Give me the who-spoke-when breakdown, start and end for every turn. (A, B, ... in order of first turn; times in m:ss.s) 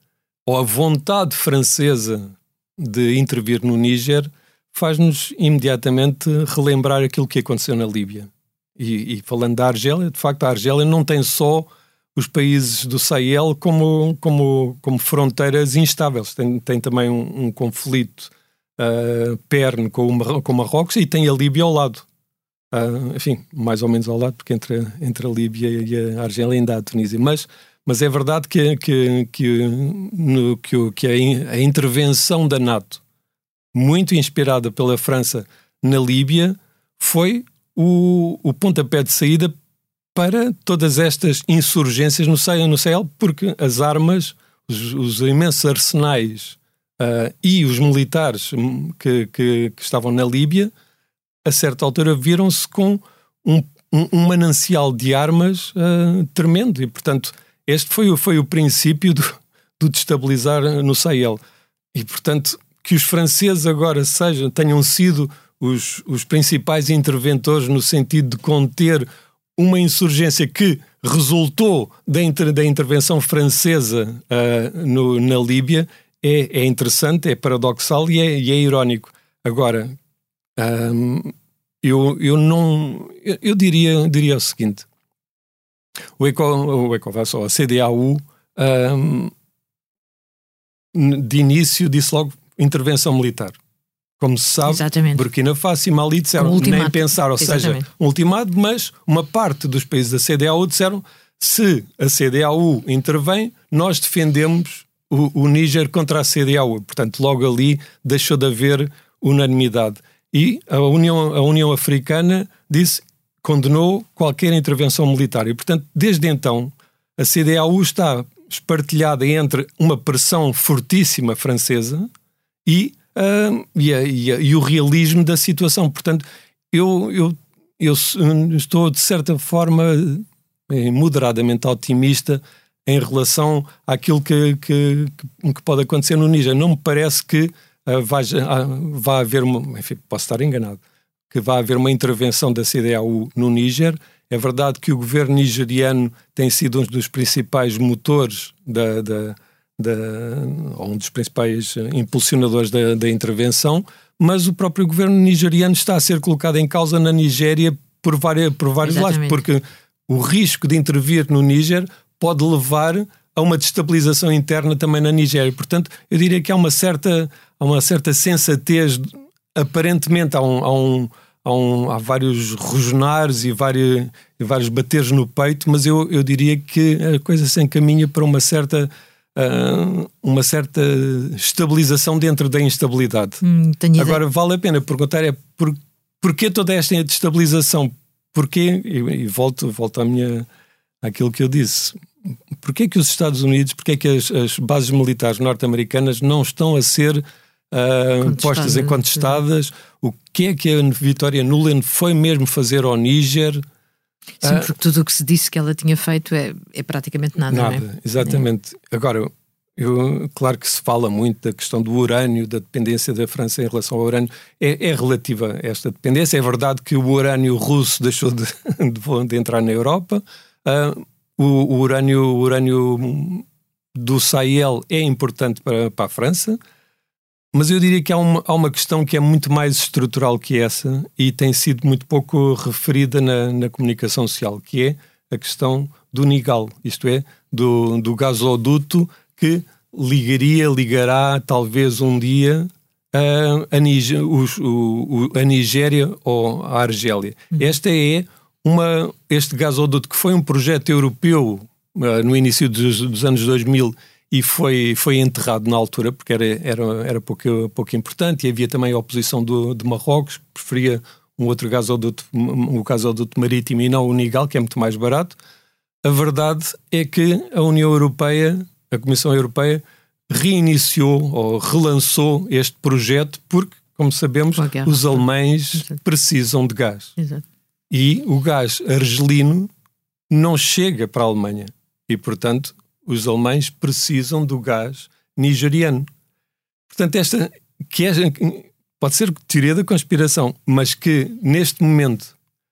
0:00.5-0:22.0 A
0:22.7-0:33.0 A
0:33.7-0:39.5 A
0:40.2-0:50.7 A
0:51.4-1:01.4 A
1:01.9-1:20.0 A
1:20.6-1:24.9 A
1:26.2-1:29.3 A
1:30.9-1:33.6 A
1:34.2-2:02.1 A
1:34.7-1:35.2 B
1:36.4-1:37.8 B
2:02.6-3:03.4 A
2:38.8-2:39.4 B
3:03.4-3:04.2 B
3:04.0-3:10.5 A
3:11.0-3:12.0 A
3:12.6-3:23.6 A
3:18.2-3:19.4 B
3:24.4-3:24.7 A
3:24.4-3:28.4 B
3:27.5-3:46.6 A
3:47.5-4:25.4 A
4:26.0-4:37.2 A
4:34.6-4:35.2 B
4:37.2-4:37.4 B
4:37.9-4:39.7 A
4:40.3-4:46.1 A
4:46.9-4:52.3 A